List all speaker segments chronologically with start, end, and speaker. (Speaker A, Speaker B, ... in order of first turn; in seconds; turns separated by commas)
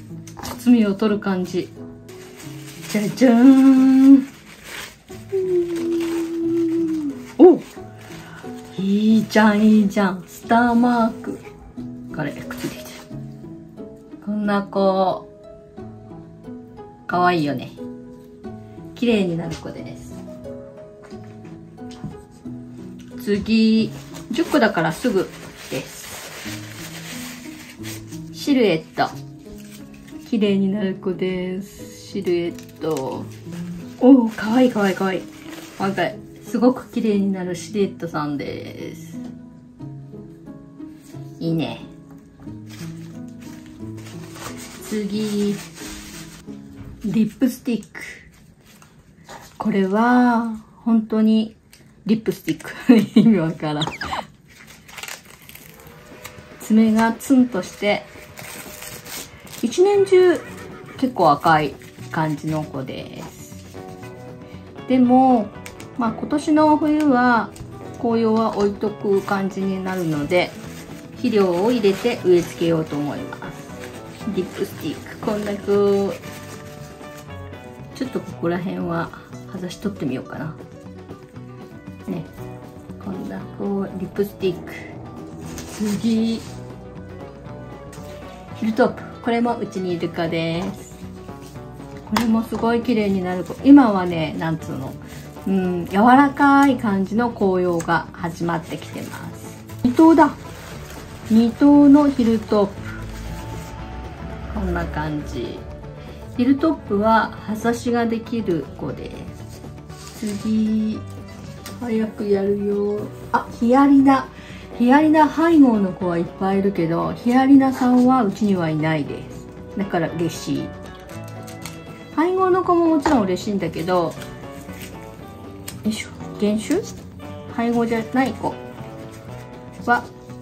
Speaker A: 0.5-1.7, Speaker A: 2.9-4.3, Speaker A: 5.3-7.7, Speaker A: 8.8-11.4, Speaker A: 12.1-13.0, Speaker A: 14.2-15.3, Speaker A: 17.1-17.8, Speaker A: 18.9-20.2, Speaker A: 23.2-26.3, Speaker A: 28.3-29.1, Speaker A: 30.2-33.3, Speaker A: 34.0-39.2, Speaker A: 41.4-41.9, Speaker A: 44.8-45.6, Speaker A: 47.0-48.3, Speaker A: 49.6-53.9, Speaker A: 56.6-58.1, Speaker A: 59.6-60.5, Speaker A: 61.0-63.6, Speaker A: 64.9-70.6, Speaker A: 71.1-73.7, Speaker A: 74.2-76.2, Speaker A: 77.9-80.6, Speaker A: 83.0-84.9, Speaker A: 85.8-86.5, Speaker A: 88.6-91.0, Speaker A: 92.1-100.4, Speaker A: 101.3-103.0, Speaker A: 104.5-105.7, Speaker A: 106.3-109.3, Speaker A: 110.1-111.1, Speaker A: 111.8-120.7, Speaker A: 122.1-124.2, Speaker A: 125.8-127.0, Speaker A: 127.5-128.6